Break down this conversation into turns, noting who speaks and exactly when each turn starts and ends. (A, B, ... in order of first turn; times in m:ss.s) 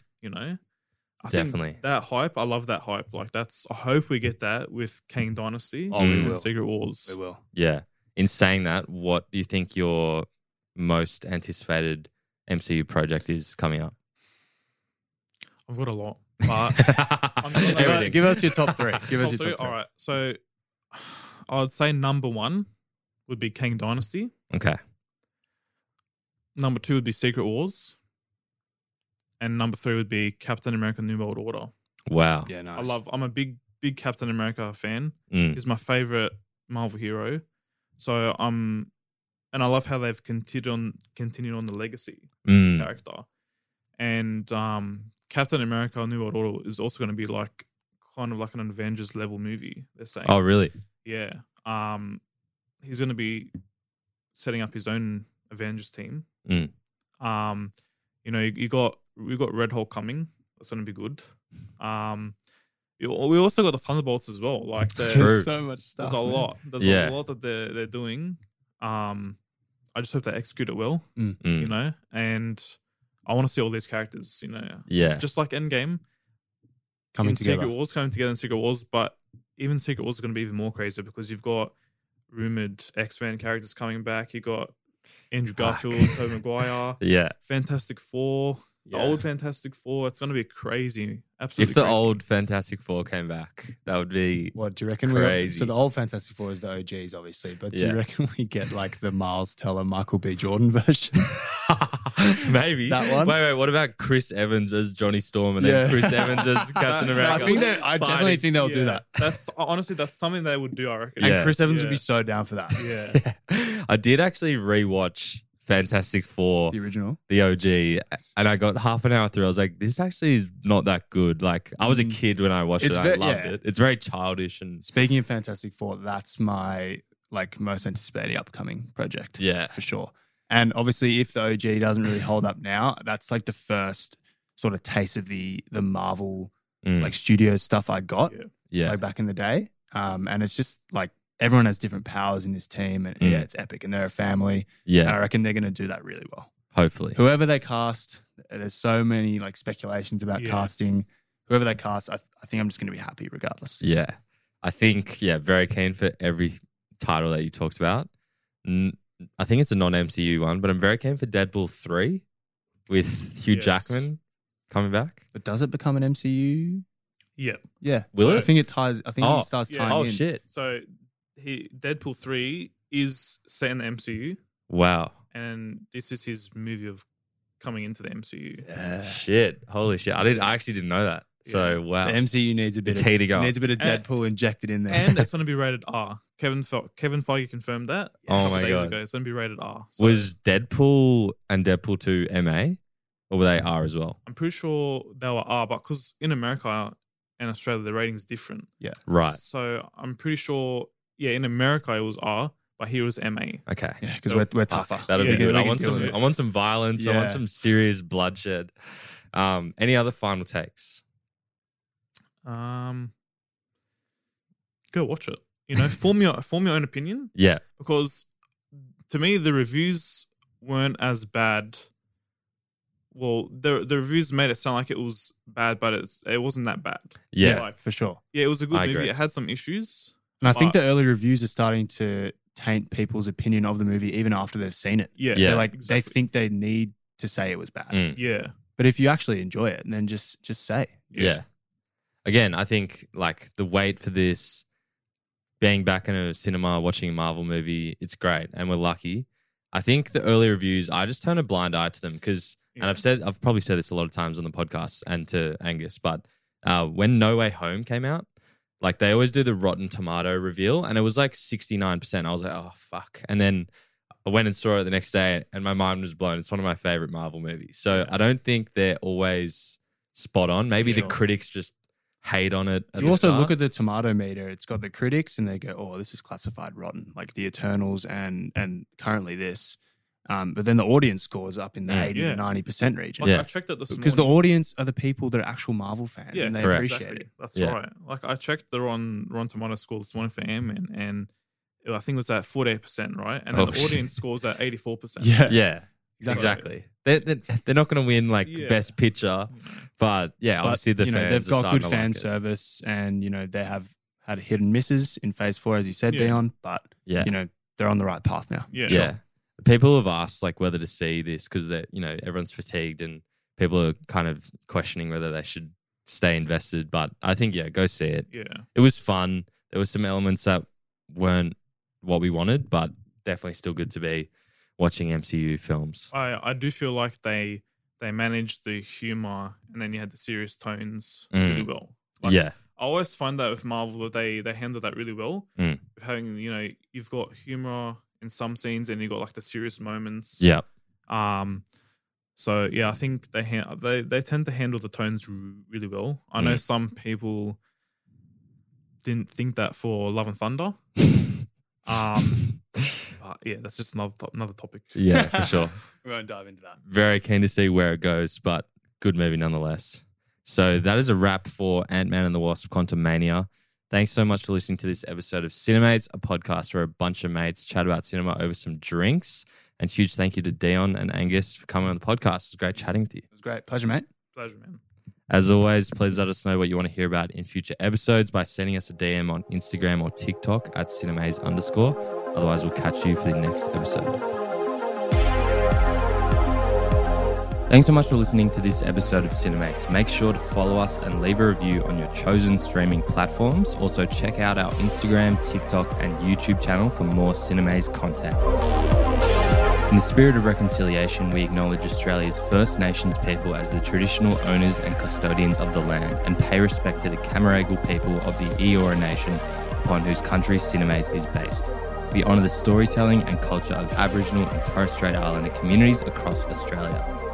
0:00.2-0:00.6 A
0:01.2-0:07.2 A
0:01.3-0:01.8 B
0:05.9-0:06.5 C
0:06.0-0:06.3 B
0:07.0-0:07.4 C
0:07.5-0:13.9 B
0:15.7-0:20.4 A
0:16.8-0:18.8 B
0:17.8-0:19.8 C
0:20.9-0:22.7 A
0:23.3-0:24.3 A
0:24.5-0:24.8 B
0:26.6-0:28.0 A
0:29.4-0:31.7 A
0:32.1-0:32.5 B
0:32.5-0:33.0 C
0:32.7-0:37.4 A
0:35.3-0:35.6 B
0:38.0-0:38.9 A
0:39.5-0:43.2 A
0:42.4-0:42.9 B
0:44.0-0:50.4 A
0:50.2-0:50.7 B
0:51.0-0:52.2 A
0:52.8-0:53.5 A
0:54.3-0:56.3 A
0:56.4-0:56.7 B
0:57.2-0:57.7 A
0:58.2-1:02.3 A
1:03.0-1:09.4 A
1:05.1-1:06.5 C
1:05.1-1:05.5 B
1:06.8-1:07.2 B
1:09.9-1:16.0 A
1:11.4-1:11.7 B
1:14.9-1:15.2 B
1:17.1-1:17.7 C
1:17.2-1:21.7 A
1:22.3-1:24.7 A
1:25.3-1:32.2 A
1:25.6-1:25.8 C
1:27.0-1:27.3 B
1:28.9-1:29.2 C
1:31.6-1:35.7 B
1:34.5-1:41.3 C
1:37.7-1:38.0 B
1:41.4-1:47.6 B
1:42.8-1:43.4 C
1:45.6-1:49.0 C
1:46.8-1:52.0 A
1:51.2-1:52.8 C
1:51.2-1:51.6 B
1:52.8-1:53.2 A
1:53.1-1:56.8 B
1:56.7-1:57.2 C
1:57.3-2:04.8 B
2:01.8-2:02.2 C
2:02.8-2:03.5 C
2:04.8-2:26.5 C
2:09.4-2:09.8 B
2:16.8-2:17.1 B
2:18.7-2:19.0 B
2:23.2-2:23.4 B
2:24.9-2:25.2 B
2:26.7-2:27.2 B
2:27.1-2:33.8 C
2:30.4-2:30.7 A
2:33.8-2:38.1 B
2:38.6-2:42.2 B
2:42.9-2:44.2 B
2:43.5-2:44.1 A
2:44.7-2:45.2 B
2:45.3-2:46.8 C
2:47.4-2:47.6 A
2:47.8-2:50.2 C
2:48.1-2:48.5 B
2:48.2-2:48.5 A
2:49.2-2:50.4 B
2:49.7-2:54.4 A
2:54.7-2:55.2 B
2:55.3-2:57.0 A
2:57.6-2:58.7 A
2:58.6-2:59.2 C
2:59.0-3:02.2 B
3:01.4-3:01.8 A
3:02.0-3:05.2 C
3:02.8-3:03.6 B
3:03.8-3:04.0 A
3:04.9-3:10.3 A
3:08.2-3:08.8 C
3:08.3-3:09.0 B
3:10.0-3:12.8 B
3:13.3-3:14.2 B
3:14.2-3:23.6 A
3:19.1-3:19.4 B
3:23.7-3:24.0 B
3:24.0-3:26.2 C
3:24.7-3:28.7 B
3:25.1-3:26.2 A
3:27.0-3:27.4 C
3:29.3-3:31.0 B
3:32.4-3:33.1 A
3:34.9-3:38.3 A
3:37.3-3:37.6 B
3:39.1-3:41.9 A
3:43.1-3:47.8 A
3:47.3-3:47.6 B
3:47.4-3:48.2 C
3:48.3-3:50.8 A
3:48.7-3:49.1 B
3:50.4-3:58.0 C
3:55.2-3:56.2 A
3:55.3-3:55.7 B
3:57.9-3:58.2 B
3:58.2-3:58.5 A
3:58.8-4:01.4 C
4:01.1-4:01.4 A
4:01.2-4:01.4 B
4:02.2-4:04.6 B
4:05.6-4:18.3 B
4:12.7-4:13.0 A
4:18.8-4:23.7 B
4:24.2-4:33.6 B
4:30.8-4:31.2 C
4:30.8-4:31.2 A
4:33.0-4:33.3 A
4:33.0-4:43.3 C
4:42.1-4:42.4 A
4:43.2-4:44.4 A
4:43.2-4:43.5 B
4:43.9-4:47.3 C
4:46.3-4:51.3 A
4:46.6-4:47.0 B
4:51.8-4:55.4 A
4:53.5-4:54.1 B
4:55.2-4:55.6 C
4:55.5-5:02.3 B
4:56.2-4:56.6 C
4:56.3-4:56.7 A
4:58.4-4:59.0 A
4:59.5-4:59.9 A
5:00.6-5:09.1 C
5:06.1-5:06.4 A
5:07.0-5:07.3 B
5:08.7-5:09.1 A
5:08.9-5:26.1 B
5:18.3-5:18.6 A
5:26.1-5:40.5 A
5:31.3-5:31.7 B
5:32.2-5:32.5 B
5:40.4-5:40.6 B
5:41.1-5:41.6 A
5:42.4-5:47.6 A
5:49.0-5:50.8 A
5:51.8-5:52.6 A
5:53.2-5:55.0 A
5:54.9-5:55.8 B
5:55.1-5:56.8 C
5:56.9-6:13.2 B
6:13.3-6:14.1 C
6:14.3-6:14.8 A
6:15.3-6:24.2 B
6:27.7-6:38.4 B
6:39.9-6:57.1 B